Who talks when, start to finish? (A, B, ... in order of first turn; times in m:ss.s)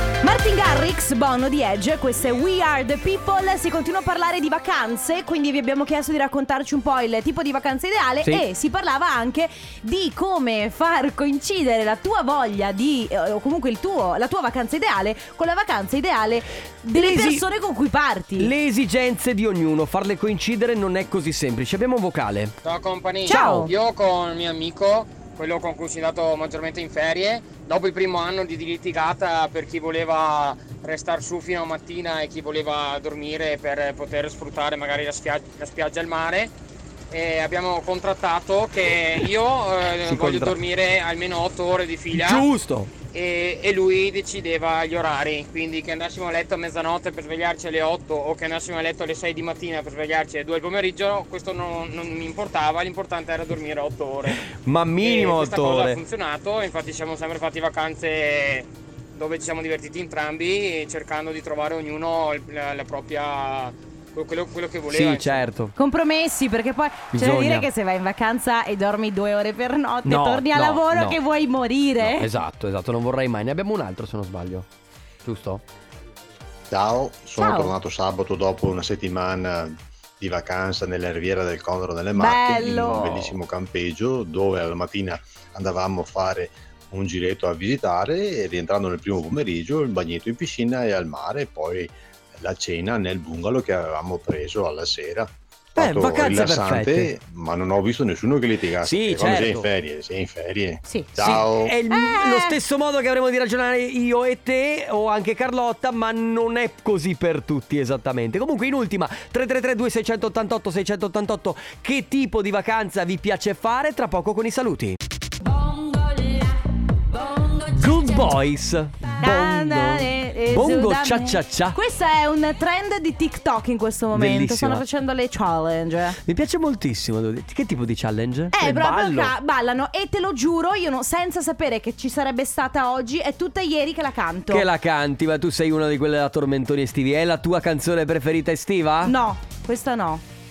0:00.2-0:18.5 A
0:16.9-0:17.4 B
0:18.4-0:22.5 B
0:22.6-0:36.5 C
0:23.2-0:23.7 A
0:23.3-0:23.7 B
0:37.1-0:42.4 C
0:40.0-0:40.6 B
0:42.1-0:42.9 B
0:43.1-0:54.4 C
0:54.4-0:56.0 B
0:55.0-1:05.4 C
1:04.9-1:05.7 B
1:05.8-1:12.3 A
1:07.1-1:07.7 B
1:10.0-1:11.2 B
1:12.0-1:14.7 B
1:15.2-1:15.6 B
1:16.7-1:41.7 D
1:17.4-1:17.7 A
1:22.1-1:23.4 A
1:35.8-1:37.1 B
1:38.8-1:39.7 B
1:40.8-1:42.6 A
1:41.2-1:55.0 B
1:57.4-2:01.8 B
1:59.2-2:06.2 A
2:04.1-2:04.8 B
2:06.2-2:09.3 B
2:08.5-2:14.6 A
2:14.5-2:19.1 B
2:19.0-2:20.2 A